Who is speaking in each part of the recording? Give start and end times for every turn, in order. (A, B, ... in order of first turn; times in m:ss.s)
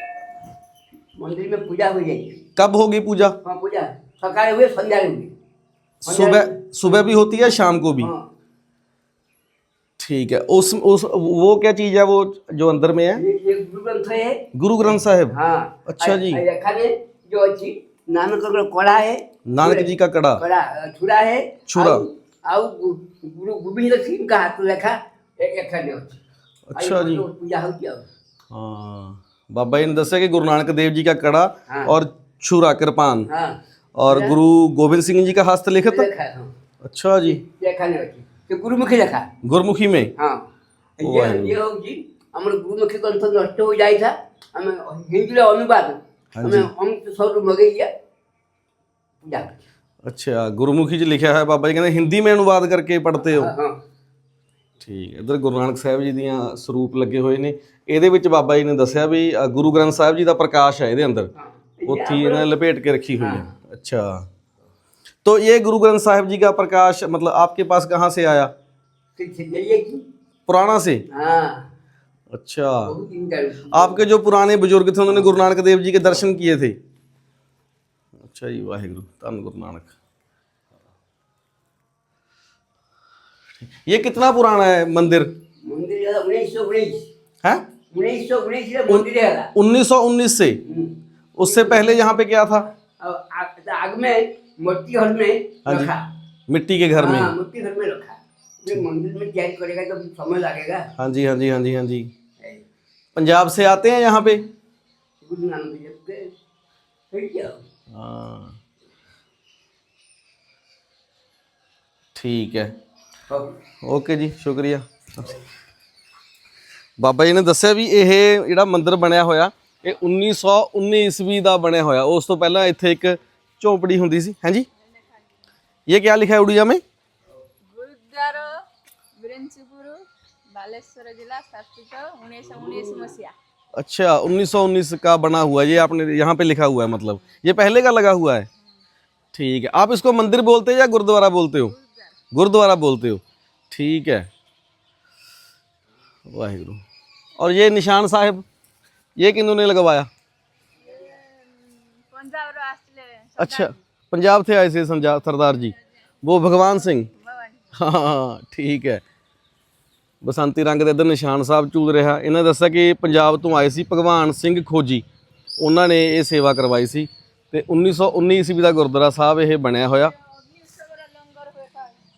0:01.2-0:02.4 A
0:02.6-0:03.4 B
0:03.4-0:05.3 A
0:06.0-0:08.1 B
0:06.1-0:07.1 A
0:08.0-0:08.3 A
0:10.0-0:13.2 B
0:13.1-0:26.2 A
0:14.5-0:16.4 B
0:19.5-0:20.4 B
0:21.7-0:22.0 B
0:26.7-0:27.2 B
0:26.8-0:28.1 A
0:28.5-0:33.3 B
0:31.7-0:32.0 A
0:33.3-0:34.4 A
0:34.0-0:36.1 B
0:35.9-0:36.5 A
0:36.8-0:37.4 B
0:37.4-0:39.3 A
0:39.4-0:40.1 B
0:40.2-0:47.9 A
0:41.0-0:41.6 B
0:46.3-0:46.7 B
0:49.2-0:49.6 A
0:50.0-0:53.5 B
0:53.2-0:53.8 A
0:54.8-1:01.3 B
1:01.4-1:02.6 A
1:01.9-1:04.3 B
1:03.2-1:03.5 A
1:05.2-1:08.5 B
1:09.2-1:10.1 A
1:10.5-1:11.0 B
1:11.1-1:11.7 A
1:12.3-1:12.9 B
1:12.8-1:14.0 A
1:13.7-1:16.8 B
1:18.2-1:19.9 B
1:23.7-1:25.3 B
1:25.6-1:27.1 A
1:27.9-1:29.5 A
1:28.9-1:30.6 B
1:30.6-1:31.9 A
1:31.4-1:32.7 B
1:32.9-1:36.0 A
1:35.7-1:35.9 B
1:36.5-1:37.3 B
1:37.0-1:40.9 A
1:41.0-1:42.1 B
1:42.4-1:42.6 A
1:43.2-1:44.4 B
1:45.2-1:46.4 A
1:47.1-1:47.6 A
1:47.9-1:48.6 B
1:52.2-1:52.7 B
1:53.3-1:53.6 A
1:53.8-1:55.4 B
1:57.0-2:04.7 B
2:04.9-2:05.2 C
2:05.9-2:06.8 B
2:07.7-2:08.6 C
2:09.2-2:13.3 C
2:12.7-2:13.1 A
2:13.8-2:18.5 B
2:19.3-2:21.8 B
2:21.8-2:22.2 C
2:22.3-2:24.3 B
2:26.3-2:26.8 B
2:27.4-2:28.4 B
2:29.2-2:30.1 B
2:30.8-2:33.8 C
2:33.4-2:37.1 B
2:35.6-2:35.8 C
2:36.4-2:37.8 C
2:37.7-2:39.0 B
2:40.2-2:45.0 B
2:45.6-2:50.1 B
2:50.0-2:52.0 C